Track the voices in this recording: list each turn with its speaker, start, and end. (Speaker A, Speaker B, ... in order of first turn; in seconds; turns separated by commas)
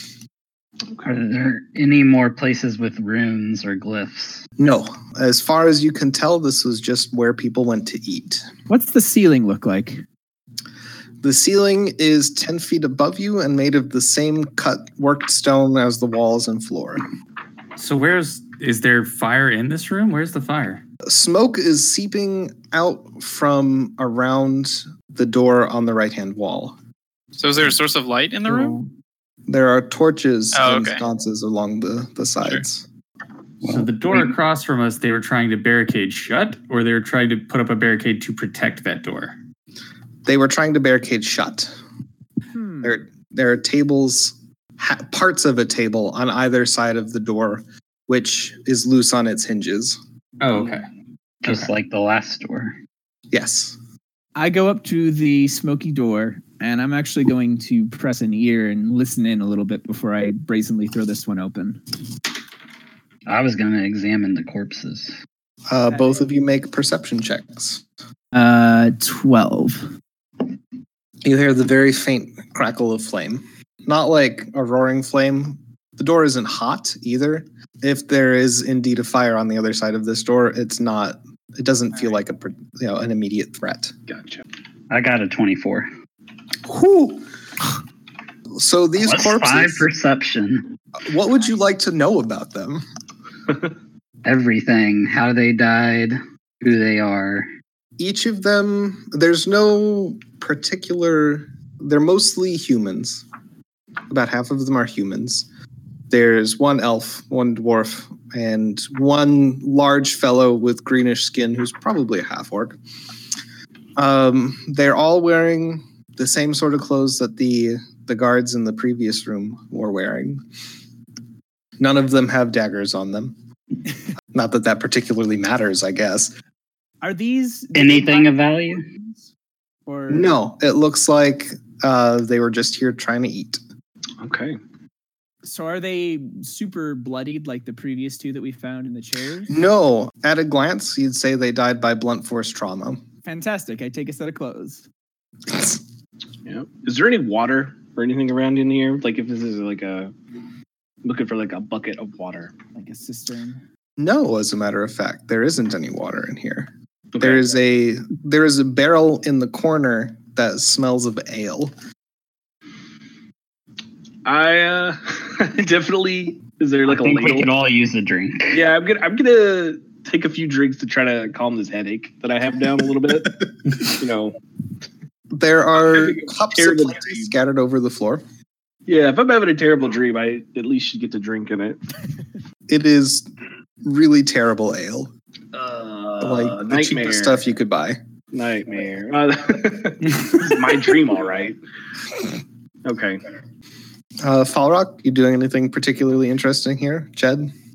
Speaker A: 1.0-4.4, Speaker B: 4.6-8.5, Speaker C: 8.7-10.0, Speaker B: 11.2-17.0, Speaker D: 17.8-20.8, Speaker B: 21.0-26.8, Speaker E: 27.4-28.8, Speaker D: 28.5-28.9, Speaker B: 29.5-32.8, Speaker E: 30.5-31.0, Speaker A: 33.6-34.3, Speaker D: 33.7-39.4, Speaker B: 40.2-41.7, Speaker C: 42.5-43.0, Speaker B: 42.8-50.0, Speaker D: 50.4-50.9, Speaker A: 51.4-52.8, Speaker D: 51.5-51.7, Speaker B: 53.3-53.8, Speaker C: 54.4-61.8, Speaker A: 63.2-65.2, Speaker B: 65.7-67.8, Speaker C: 65.9-66.3, Speaker C: 68.3-69.9, Speaker B: 71.2-83.9, Speaker F: 84.1-84.4, Speaker A: 84.9-85.9, Speaker B: 86.6-87.2, Speaker B: 88.5-89.9, Speaker A: 89.0-90.7, Speaker B: 91.0-92.8, Speaker A: 94.2-97.5, Speaker B: 98.0-103.2, Speaker B: 104.1-105.5, Speaker B: 106.1-112.8, Speaker B: 114.0-120.4, Speaker B: 121.8-123.3, Speaker B: 124.3-126.3, Speaker C: 127.0-129.3, Speaker A: 127.7-128.8, Speaker C: 129.8-130.3, Speaker B: 130.1-133.6, Speaker F: 134.2-134.6, Speaker C: 135.4-139.6, Speaker B: 139.5-143.0, Speaker C: 143.2-144.8, Speaker B: 145.5-145.8, Speaker F: 146.4-150.1, Speaker F: 151.0-152.5, Speaker C: 152.7-153.6, Speaker B: 154.0-161.7, Speaker F: 157.1-157.5, Speaker F: 164.2-167.5, Speaker A: 166.8-168.6, Speaker F: 168.5-174.3, Speaker B: 175.3-178.2, Speaker F: 175.8-177.3, Speaker F: 178.9-181.8, Speaker B: 182.7-183.3, Speaker B: 183.8-185.1, Speaker F: 185.5-187.4, Speaker B: 186.2-188.0, Speaker F: 188.3-191.6, Speaker F: 192.8-193.2, Speaker B: 194.2-197.5